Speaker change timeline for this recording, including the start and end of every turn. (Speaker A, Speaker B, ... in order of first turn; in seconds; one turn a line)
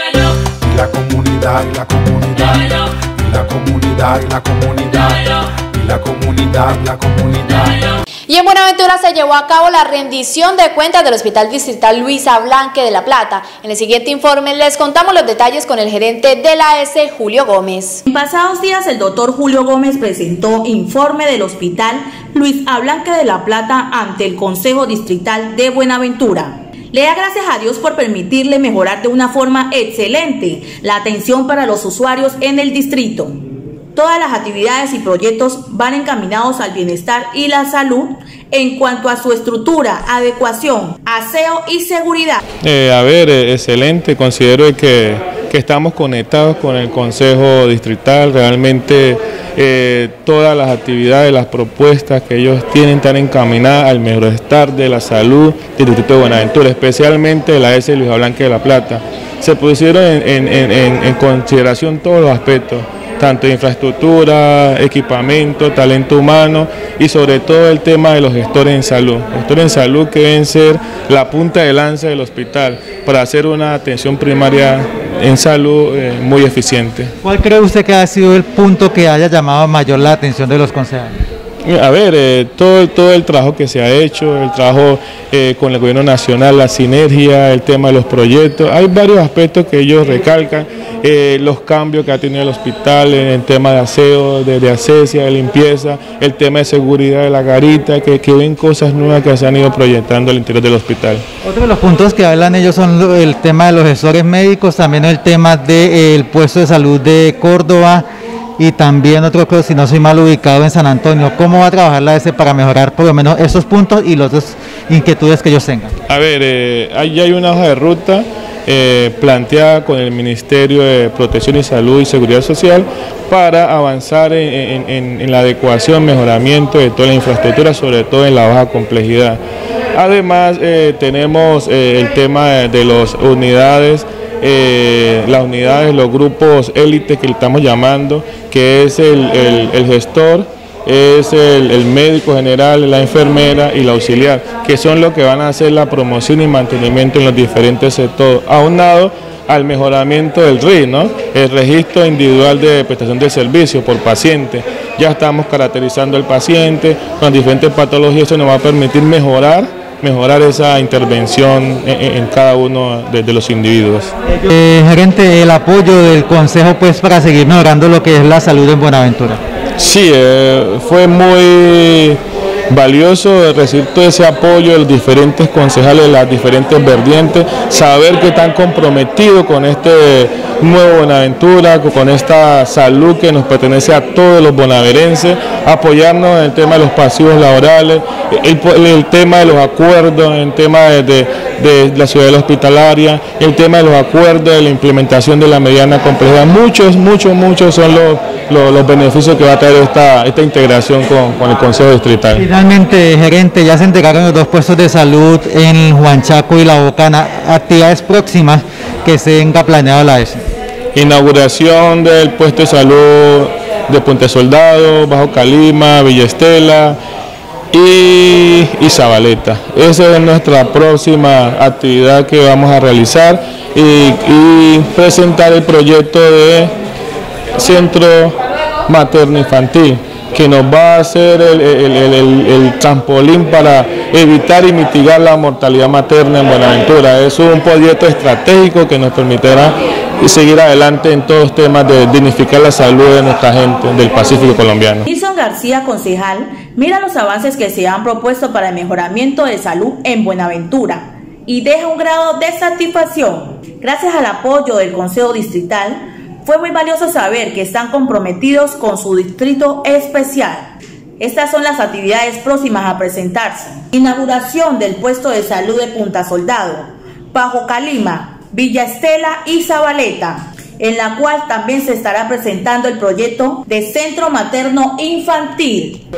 Speaker A: 0.6-7.9
Speaker B: 8.3-18.0
Speaker C: 18.1-33.4
Speaker C: 33.9-42.4
Speaker D: 42.6-77.1
Speaker E: 77.2-81.2
Speaker D: 81.6-101.2
Speaker E: 101.4-108.0
Speaker E: 108.6-115.9
Speaker D: 116.1-129.4
Speaker D: 129.9-164.1
Speaker E: 164.3-169.4
Speaker D: 169.8-202.4
Speaker E: 202.4-210.4
Speaker D: 210.9-217.0
Speaker D: 217.7-226.7
Speaker D: 227.6-228.3
Speaker D: 228.9-245.1
Speaker C: 245.1-276.0